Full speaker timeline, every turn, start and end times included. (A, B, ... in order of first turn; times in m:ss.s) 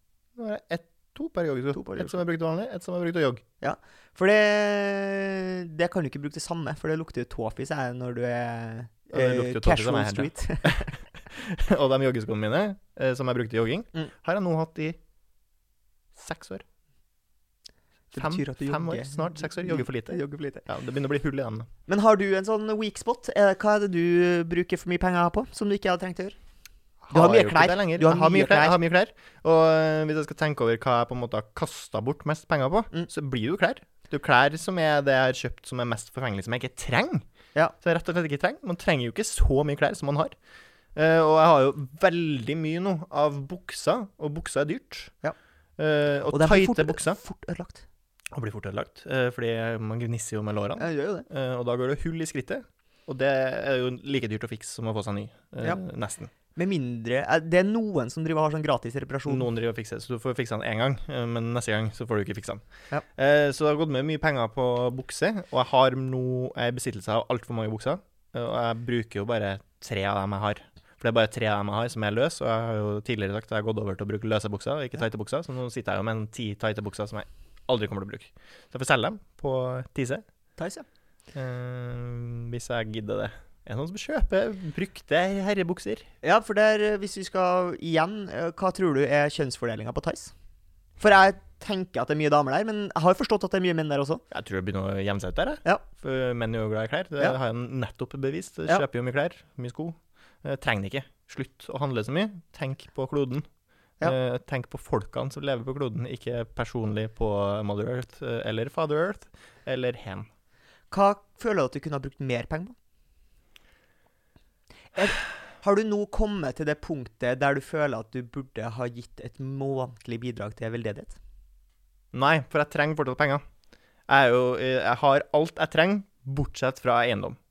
0:00.4-0:03.4 A
0:01.7-0:02.2 B
0:03.6-0:10.9 B
0:09.1-0:15.0 A
0:16.1-0:16.6 A
0:18.1-0:20.6 B
0:18.1-0:21.7 A
0:21.9-0:26.4 B
0:27.0-0:37.2 A
0:27.1-0:28.8 B
0:37.8-0:40.3 A
0:40.9-0:45.1 A
0:45.8-0:47.2 A
0:46.3-0:47.8 B
0:48.3-0:56.3 A
0:50.8-0:51.2 B
0:56.5-0:59.5 B
0:59.3-1:02.6 A
1:03.2-1:20.2 A
1:20.6-1:20.8 B
1:21.3-1:26.0 A
1:26.2-1:30.3 B
1:31.0-1:34.2 B
1:34.3-1:43.5 A
1:44.0-1:50.3 A
1:50.9-1:52.7 B
1:55.0-2:01.2 B
2:02.1-2:03.4 A
2:04.1-2:07.4 A